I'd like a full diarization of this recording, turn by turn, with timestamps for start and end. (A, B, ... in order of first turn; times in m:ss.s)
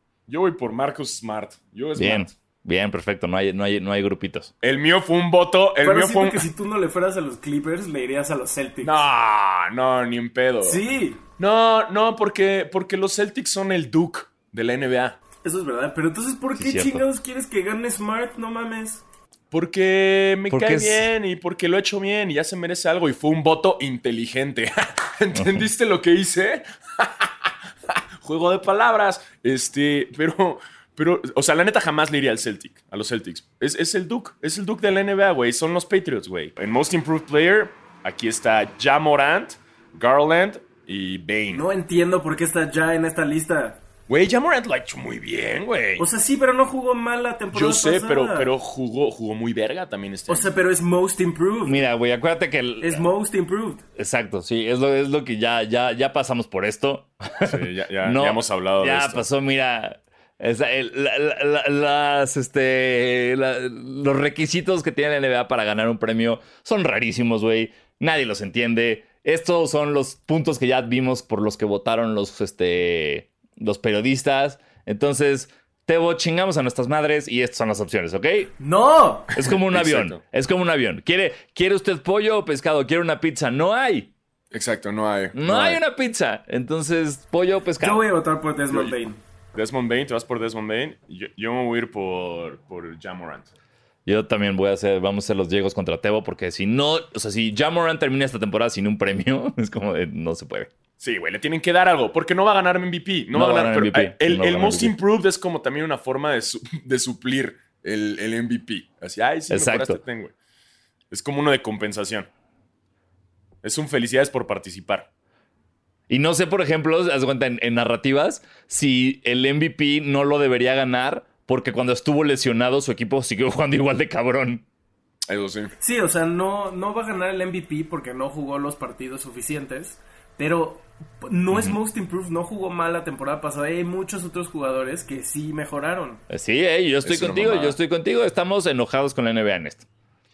0:00.3-0:02.3 A
0:02.0-0:04.5 B
0:04.6-0:06.5 A
0:05.8-0:09.0 C
0:08.8-0:10.8 A
0:10.6-0:11.2 C
0:11.4-0:15.2 A
0:15.4-0:19.0 C
0:16.6-0:17.0 B
0:19.5-0:41.6 A
0:20.5-0:21.1 B
0:25.3-0:25.7 B
0:41.5-0:43.8 C
0:44.1-0:46.1 A
0:46.0-0:48.5 C
0:47.5-0:50.5 A
0:50.3-0:51.8 C
0:51.7-0:53.1 B
0:52.8-0:53.8 C
0:54.0-1:18.5 B
0:57.4-0:59.2 A
1:18.6-1:19.3 C
1:19.4-1:20.2 A
1:19.4-1:24.1 B
1:24.5-1:25.8 A
1:25.3-1:28.0 B
1:27.8-1:29.2 C
1:28.7-1:29.0 A
1:29.5-1:33.5 A
1:34.1-1:40.7 B
1:41.0-1:50.3 A
1:43.3-1:45.0 B
1:49.5-1:50.0 B
1:51.1-1:52.3 A
1:53.6-1:55.1 A
1:56.1-2:04.6 B
2:05.3-2:05.8 A
2:05.8-2:16.2 C
2:11.5-2:11.8 B
2:16.3-2:19.9 B
2:17.0-2:17.8 A